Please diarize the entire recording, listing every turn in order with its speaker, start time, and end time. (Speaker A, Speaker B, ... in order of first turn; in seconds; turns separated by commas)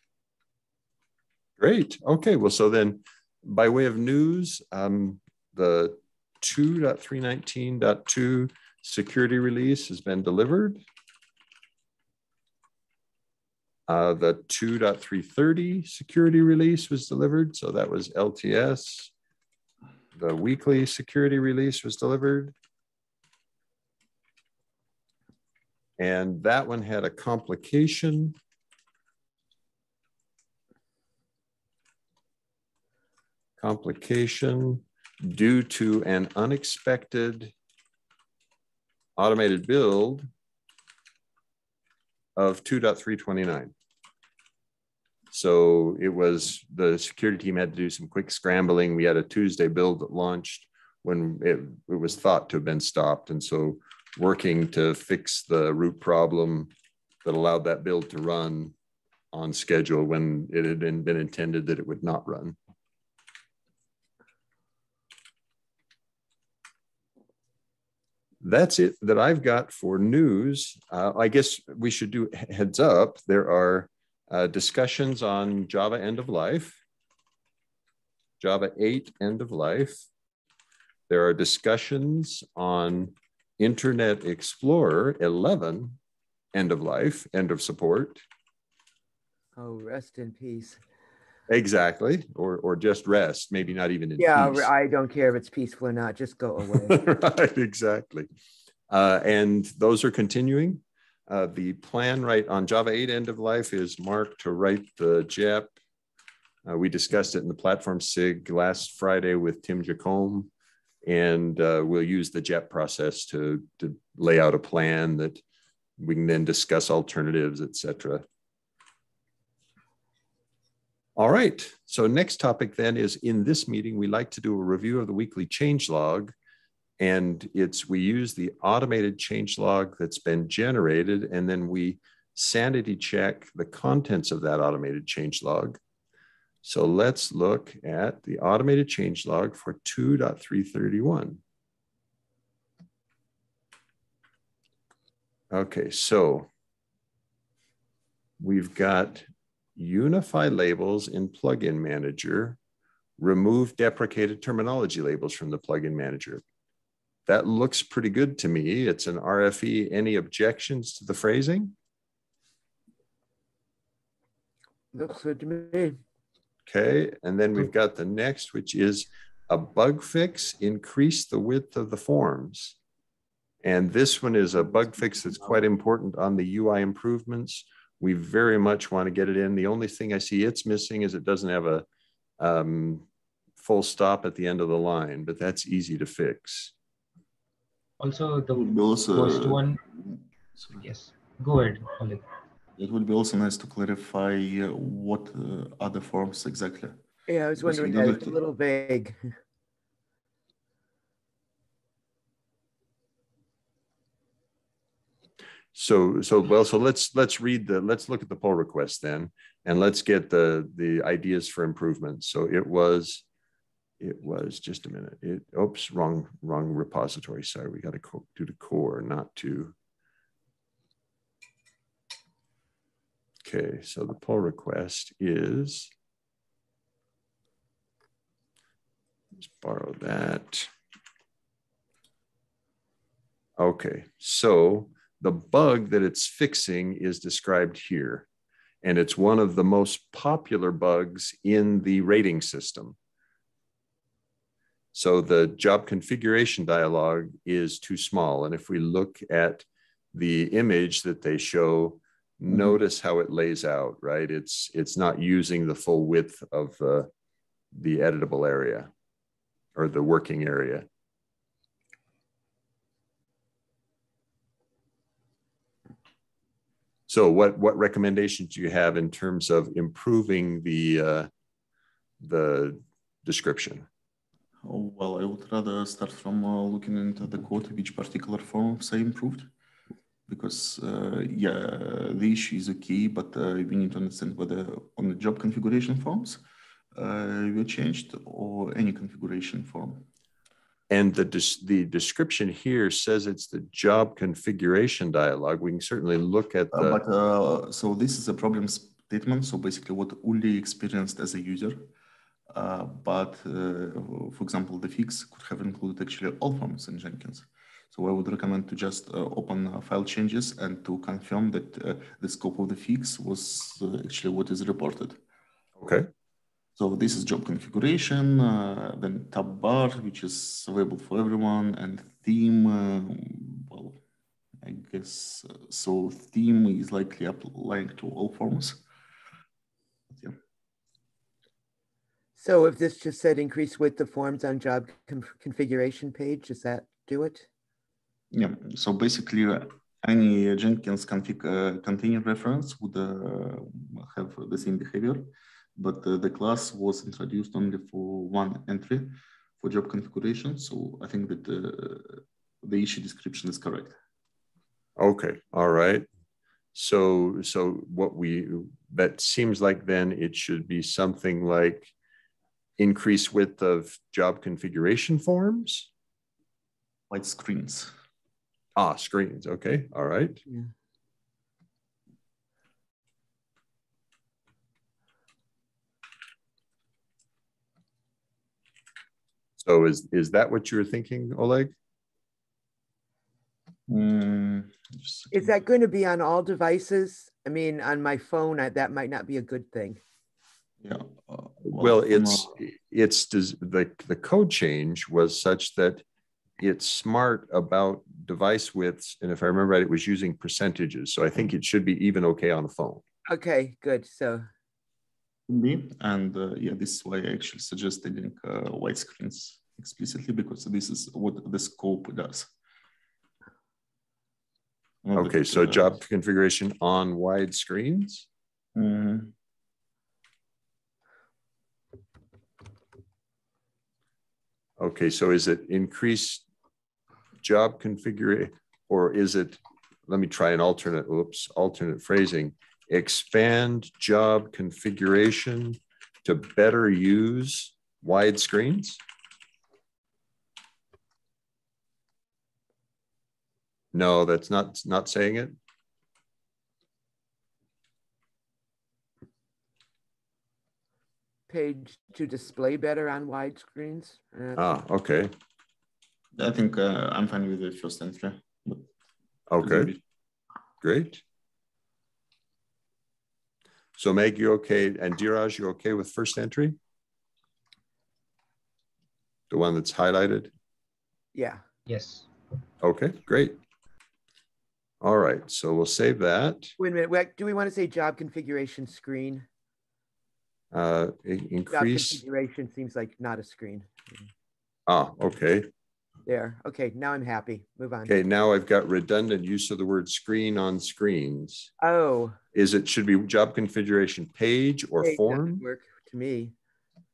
Speaker A: 1.6-10.8, Speaker A: 13.9-19.1, Speaker A: 20.1-22.6, Speaker A: 26.0-28.4, Speaker A: 33.6-37.5, Speaker A: 39.2-40.3, Speaker A: 42.4-43.7, Speaker A: 45.3-56.7, Speaker A: 57.2-58.8, Speaker A: 59.3-62.6, Speaker A: 68.4-76.8, Speaker A: 78.4-80.1, Speaker A: 81.1-86.0, Speaker A: 86.5-88.2, Speaker B: 89.6-90.8, Speaker A: 91.5-94.7, Speaker B: 94.2-97.0, Speaker A: 96.7-98.3, Speaker A: 98.9-105.7, Speaker A: 106.7-110.5, Speaker A: 111.0-115.4, Speaker A: 116.0-118.3, Speaker A: 121.2-126.3, Speaker A: 127.0-135.8, Speaker A: 136.6-141.4, Speaker A: 145.5-146.5, Speaker A: 148.4-152.6, Speaker A: 153.2-156.4, Speaker A: 157.3-161.7, Speaker B: 164.9-166.0, Speaker A: 166.7-172.8, Speaker A: 173.6-181.9, Speaker A: 182.4-183.1, Speaker A: 183.6-186.7, Speaker C: 188.0-189.8, Speaker D: 188.5-190.8, Speaker C: 190.7-192.3, Speaker D: 192.8-197.0, Speaker B: 197.3-199.3, Speaker D: 197.6-198.4, Speaker A: 205.7-213.2, Speaker A: 214.0-219.8, Speaker A: 223.4-225.9, Speaker A: 229.4-230.7, Speaker A: 233.6-238.3, Speaker A: 238.8-243.0, Speaker A: 244.9-257.1, Speaker D: 252.5-252.8, Speaker A: 257.7-258.9, Speaker A: 259.8-260.9, Speaker A: 267.1-271.3, Speaker A: 272.2-273.9, Speaker D: 274.6-279.5, Speaker D: 280.3-286.4, Speaker D: 286.9-290.1, Speaker A: 290.9-297.0, Speaker D: 296.7-301.9, Speaker D: 302.5-315.2, Speaker A: 315.8-316.1, Speaker D: 316.8-324.0, Speaker D: 324.6-328.8, Speaker B: 332.4-337.5, Speaker D: 338.3-354.0, Speaker A: 355.0-356.1, Speaker A: 356.7-361.9, Speaker A: 362.8-365.9, Speaker D: 367.1-367.9, Speaker A: 368.8-370.4, Speaker A: 379.6-381.7, Speaker D: 383.9-385.6, Speaker B: 385.3-390.0, Speaker D: 390.8-392.6, Speaker A: 391.6-396.1, Speaker A: 396.6-403.0, Speaker B: 403.3-404.5, Speaker D: 405.5-412.5, Speaker D: 415.0-416.0, Speaker A: 415.1-418.3, Speaker D: 418.8-419.3, Speaker A: 424.8-426.4, Speaker A: 427.4-439.0, Speaker A: 443.9-445.6, Speaker B: 451.5-454.7, Speaker A: 454.6-455.3, Speaker D: 456.4-458.9, Speaker A: 459.5-460.0, Speaker D: 459.6-460.0, Speaker A: 460.8-461.2, Speaker A: 464.0-466.8, Speaker A: 469.5-470.5, Speaker B: 471.4-471.6, Speaker C: 471.9-472.3, Speaker A: 472.8-473.6, Speaker A: 475.0-476.8, Speaker B: 476.8-479.5, Speaker A: 480.7-482.2, Speaker B: 481.7-484.2, Speaker A: 484.9-485.7, Speaker B: 486.3-488.1, Speaker A: 488.1-491.7, Speaker B: 491.8-492.4, Speaker A: 492.5-495.6, Speaker B: 495.0-496.5